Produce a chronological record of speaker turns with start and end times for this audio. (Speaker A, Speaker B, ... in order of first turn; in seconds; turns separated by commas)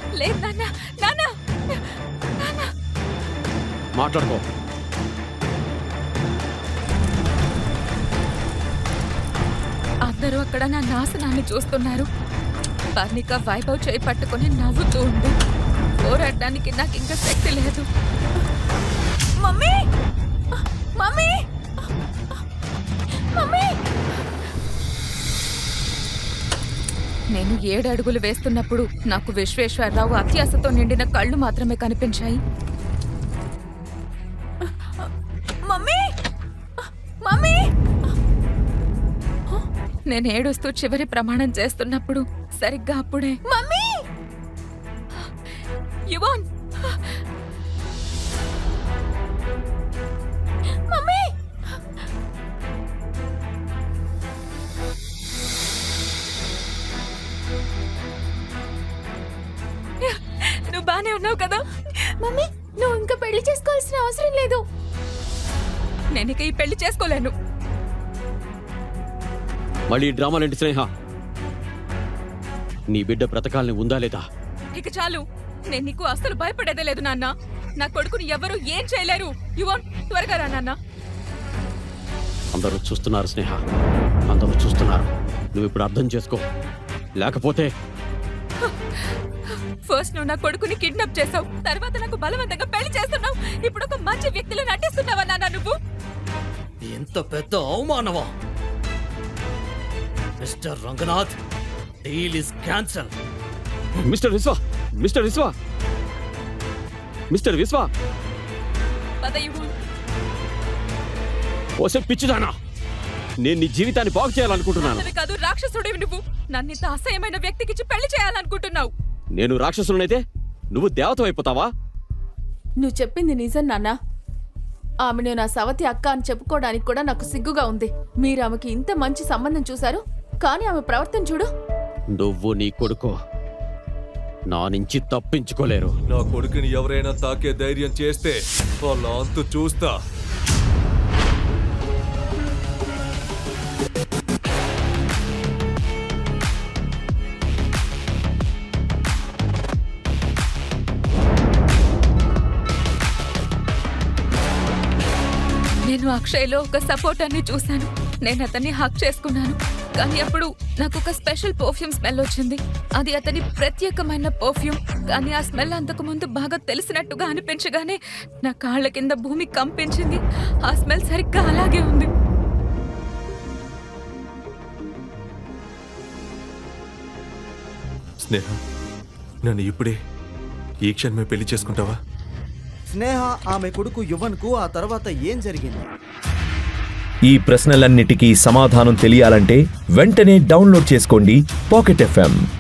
Speaker A: 0.2-2.7, Speaker B: 3.9-4.4, Speaker A: 10.1-12.1, Speaker A: 12.9-15.3, Speaker A: 16.0-17.9, Speaker C: 19.4-19.8, Speaker C: 20.5-21.4, Speaker C: 23.3-23.8, Speaker A: 27.3-32.4, Speaker C: 34.6-35.1, Speaker C: 35.6-36.1, Speaker C: 36.8-38.1, Speaker A: 40.1-43.4, Speaker C: 43.5-44.1, Speaker A: 46.1-47.2, Speaker C: 50.9-51.8, Speaker A: 60.0-61.7, Speaker C: 62.0-64.6, Speaker A: 66.1-67.3, Speaker B: 69.9-70.9, Speaker B: 72.9-74.2, Speaker A: 74.7-80.8, Speaker B: 82.5-83.6, Speaker B: 84.3-86.4, Speaker B: 87.2-87.7, Speaker A: 88.6-95.7, Speaker D: 96.8-98.3, Speaker D: 100.4-101.4, Speaker D: 102.0-103.2, Speaker B: 104.0-105.5, Speaker B: 107.3-107.9, Speaker A: 109.2-109.7, Speaker B: 111.8-112.5, Speaker B: 113.4-115.1, Speaker A: 114.8-118.9, Speaker B: 119.3-120.2, Speaker B: 120.7-121.7, Speaker C: 122.8-123.9, Speaker C: 125.0-131.5, Speaker B: 132.2-133.1, Speaker B: 134.5-135.9, Speaker E: 136.1-139.9, Speaker A: 155.8-172.1, Speaker E: 178.3-178.6, Speaker E: 179.4-179.9, Speaker E: 180.8-181.9, Speaker F: 182.9-185.9, Speaker G: 187.3-192.4